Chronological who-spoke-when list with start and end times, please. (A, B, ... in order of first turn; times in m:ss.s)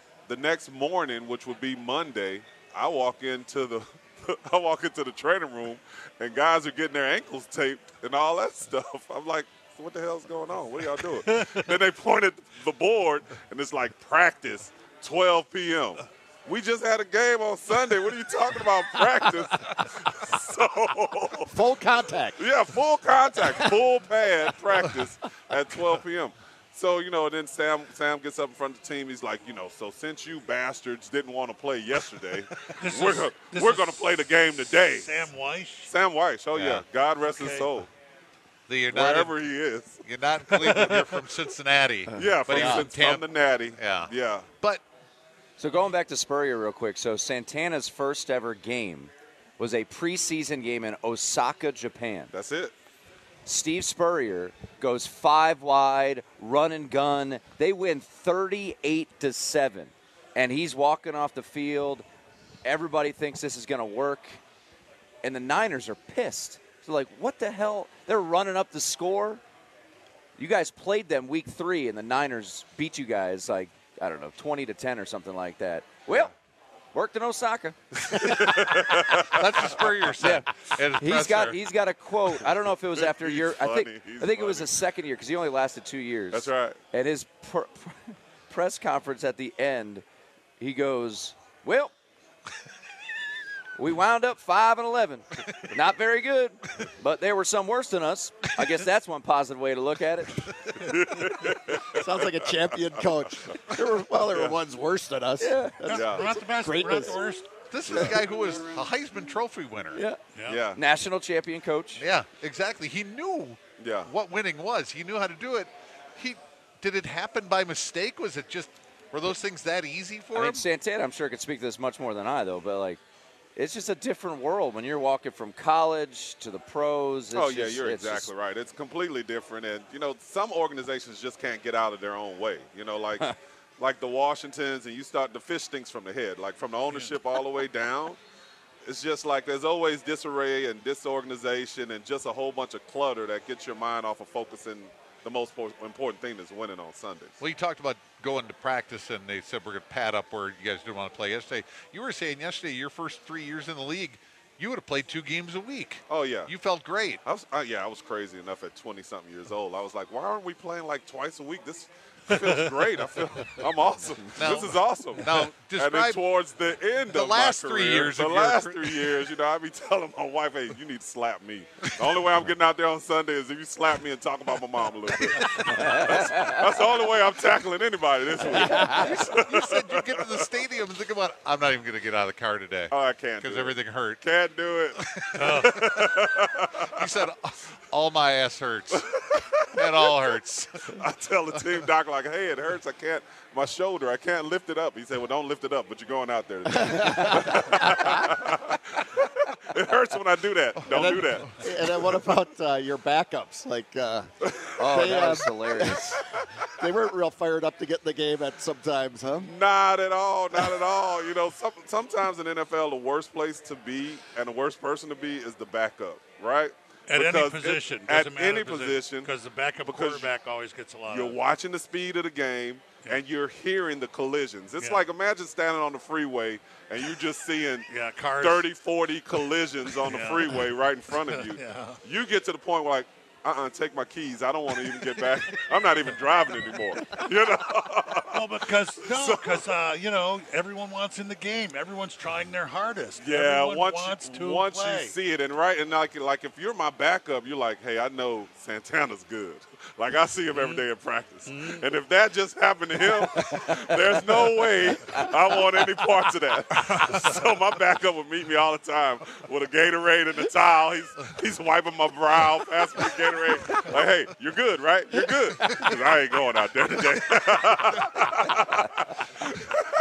0:00.3-0:21.6 A
0:11.3-0:11.6 B
0:21.5-0:22.4 C
0:22.4-0:35.2 A
0:32.8-0:35.9 B
0:35.8-0:37.9 A
0:36.5-0:36.8 D
0:37.2-0:37.7 B
0:38.7-0:39.4 D
0:38.9-0:40.0 A
0:40.0-0:44.8 D
0:40.5-0:41.2 B
0:42.1-0:44.5 A
0:45.6-0:52.3 E
0:52.3-0:52.7 A
0:53.4-1:02.0 E
1:02.6-1:04.4 E
1:05.2-1:09.4 E
1:10.4-1:16.3 E
1:16.9-1:18.2 E
1:18.1-1:20.0 A
1:19.2-1:21.6 D
1:20.2-1:30.0 E
1:22.9-1:24.8 A
1:26.3-1:26.8 A
1:30.6-1:31.9 E
1:33.8-1:40.5 E
1:40.7-1:42.4 A
1:41.7-1:47.2 C
1:44.3-1:44.6 A
1:45.4-1:45.8 E
1:45.8-1:47.5 B
1:45.9-1:46.3 A
1:47.7-1:50.0 D
1:47.9-1:48.2 A
1:49.9-1:50.2 E
1:50.3-1:50.6 B
1:50.4-1:50.8 A
1:50.7-1:52.0 E
1:52.0-2:00.6 D
1:53.8-1:54.1 A
2:00.3-2:03.0 E
2:03.6-2:08.3 E
2:07.3-2:18.2 A
2:18.8-2:27.4 A
2:27.4-2:37.2 D
2:36.1-2:36.5 A
2:37.2-3:00.5 A
2:44.3-2:46.2 D
2:47.1-2:49.1 D
2:55.4-2:56.1 D
2:56.0-2:56.5 E
2:58.6-3:04.2 D
3:02.9-3:07.2 A
3:05.0-3:06.1 D
3:05.4-3:05.8 B
3:06.8-3:09.1 D
3:08.9-3:10.1 A
3:09.6-3:11.0 D
3:10.9-3:19.1 A
3:16.8-3:18.3 C
3:17.1-3:17.4 E
3:19.6-3:21.6 A
3:20.8-3:24.3 C
3:24.4-3:24.9 A
3:24.8-3:26.2 E
3:24.8-3:29.5 C
3:29.4-3:39.3 A
3:37.1-3:41.4 B
3:39.9-3:40.3 A
3:41.1-3:47.9 A
3:47.9-3:48.7 B
3:48.4-3:59.6 A
3:50.0-3:52.0 B
3:58.3-4:05.1 B
4:03.2-4:29.8 A
4:10.5-4:10.8 B
4:11.5-4:11.8 B
4:13.6-4:14.0 E